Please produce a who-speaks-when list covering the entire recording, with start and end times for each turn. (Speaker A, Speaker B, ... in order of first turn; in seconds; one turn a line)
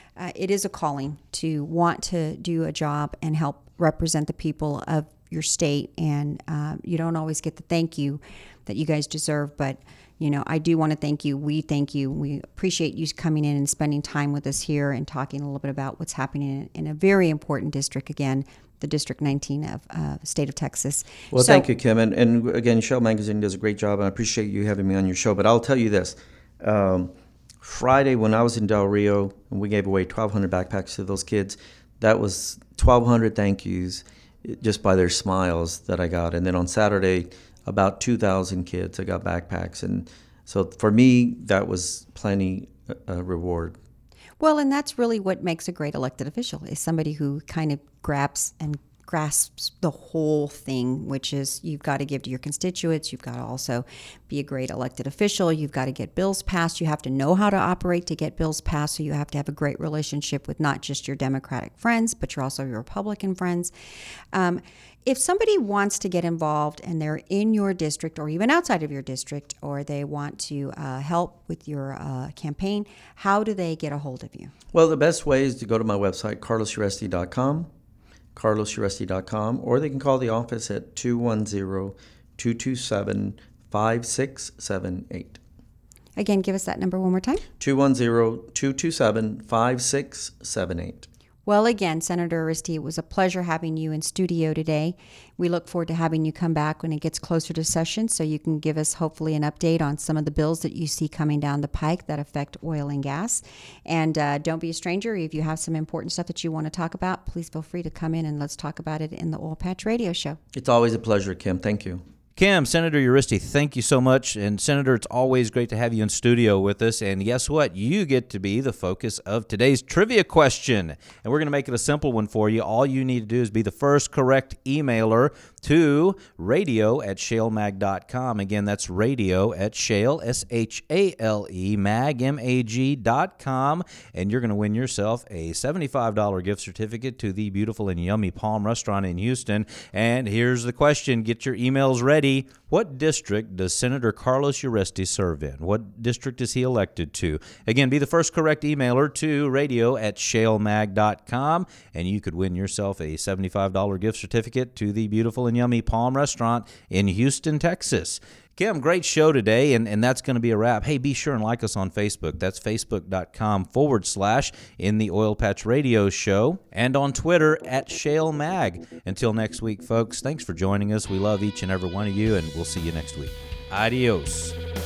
Speaker A: 0.2-21.6
Speaker B: 21.3-43.8
Speaker A: 44.4-63.7
Speaker A: 64.3-74.5
Speaker B: 74.7-77.7
Speaker B: 78.3-85.4
Speaker A: 86.2-87.4
Speaker B: 87.6-91.1
Speaker A: 91.5-110.4
Speaker B: 110.5-112.0
Speaker C: 112.4-174.6